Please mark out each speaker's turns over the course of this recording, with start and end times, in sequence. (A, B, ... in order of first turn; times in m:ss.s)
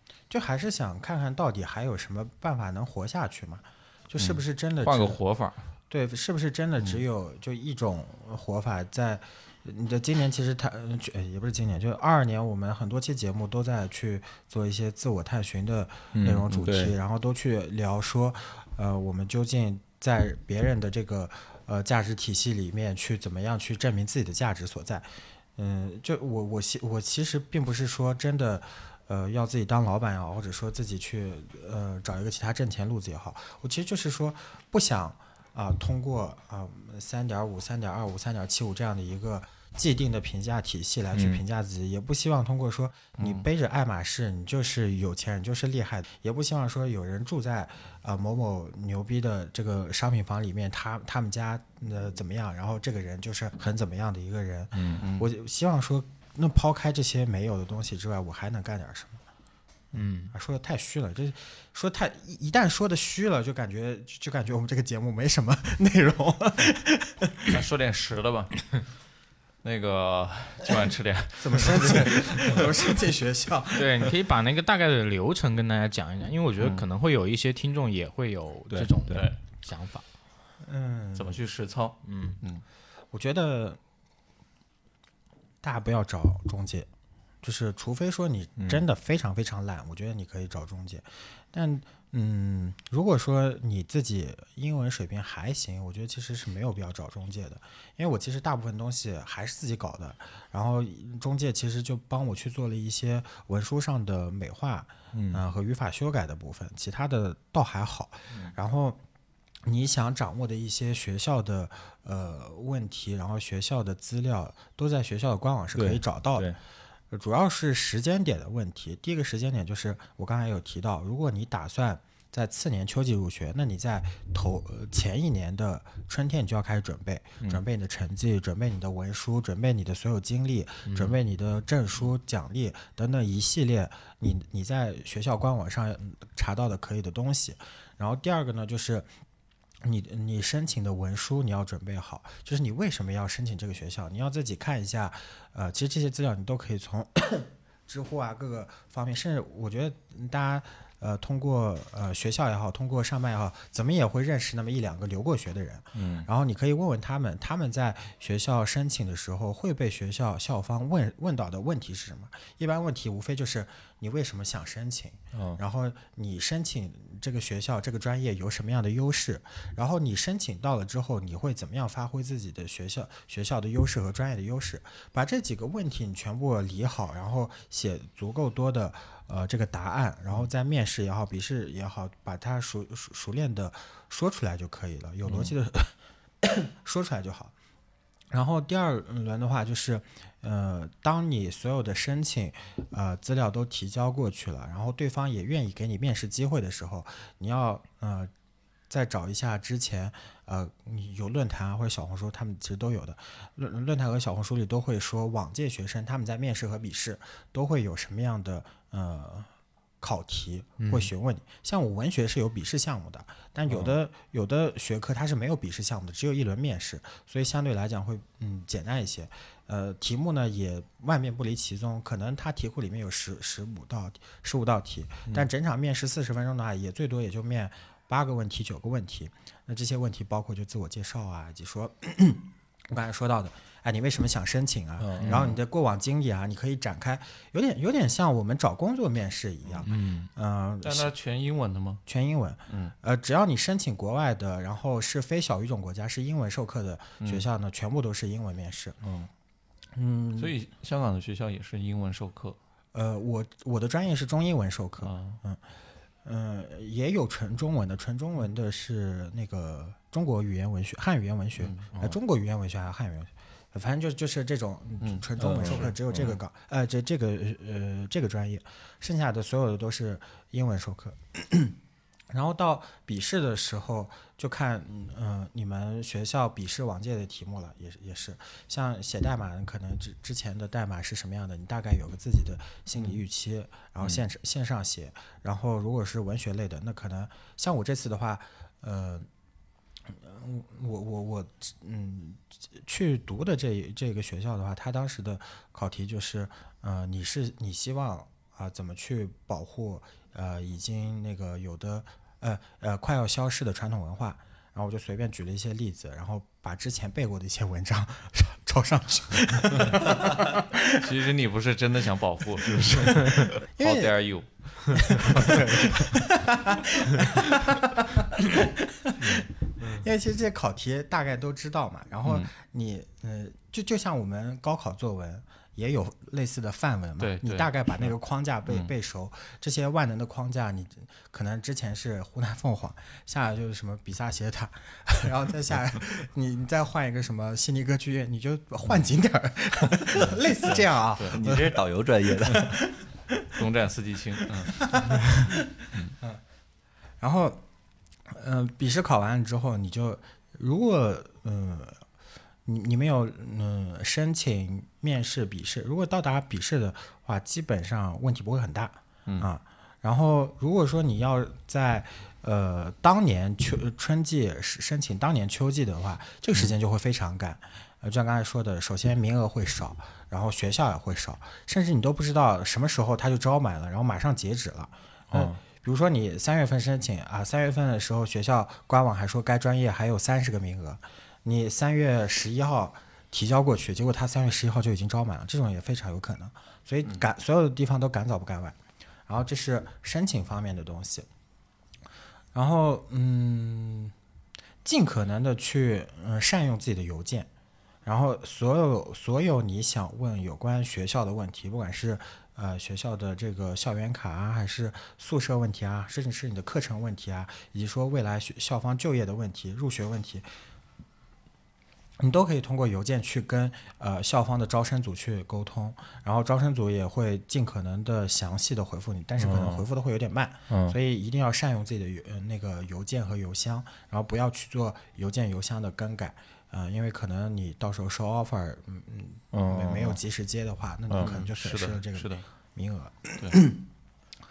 0:00.3-0:05.2 A
0:04.2-0:05.6 B
0:05.9-0:59.2 A
0:16.1-0:16.9 C
0:41.1-0:41.4 C
0:43.2-0:43.4 B
0:54.7-0:55.0 C
0:55.0-0:55.3 B
0:59.9-1:00.3 D
1:00.3-1:07.5 A
1:07.4-1:08.8 B
1:09.6-1:12.7 B
1:11.4-1:14.1 A
1:13.7-1:20.0 D
1:16.6-1:16.8 B
1:18.7-1:19.3 C
1:19.1-1:19.4 B
1:20.6-1:21.4 A
1:21.1-1:22.6 B
1:22.0-1:22.4 D
1:23.1-1:23.8 A
1:25.6-1:26.9 A
1:27.4-1:49.0 A
1:45.1-1:45.4 C
1:48.3-1:48.5 C
1:49.6-1:56.6 A
1:55.7-1:56.6 C
1:57.1-2:19.1 A
2:10.8-2:11.2 D
2:19.8-3:07.5 A
2:35.9-2:36.3 C
2:45.3-2:45.6 C
3:08.3-3:18.3 A
3:18.9-3:29.5 A
3:30.0-4:01.1 A
3:30.8-3:31.1 D
3:33.7-3:33.9 C
3:55.0-3:55.6 C
3:55.2-3:55.5 D
3:59.8-4:00.2 C
3:59.9-4:00.2 D
4:00.8-4:02.0 B
4:02.0-4:09.0 A
4:02.7-4:02.9 B
4:07.2-4:07.5 B
4:09.0-4:09.3 C
4:09.9-4:10.5 A
4:10.4-4:12.6 B
4:12.9-4:15.6 A
4:15.0-4:15.4 B
4:16.2-4:31.8 A
4:21.6-4:21.9 B
4:25.0-4:25.9 B
4:25.4-4:26.4 C
4:32.3-4:49.3 A
4:50.0-5:11.0 A
5:10.9-5:15.9 B
5:13.8-5:14.1 A
5:15.1-5:41.8 A
5:27.2-5:28.1 B
5:40.6-5:41.4 B
5:41.3-5:42.8 C
5:42.4-5:43.5 A
5:43.5-5:44.9 B
5:44.8-5:46.4 A
5:47.2-5:47.6 A
5:48.3-5:52.0 A
5:52.6-6:31.3 A
6:15.3-6:15.6 C
6:32.5-6:34.1 A
6:34.8-6:37.5 A
6:38.0-6:50.5 A
6:52.2-7:13.8 A
6:59.4-6:59.8 C
7:00.7-7:01.0 C
7:09.5-7:10.2 C
7:11.1-7:11.3 C
7:11.2-7:12.5 B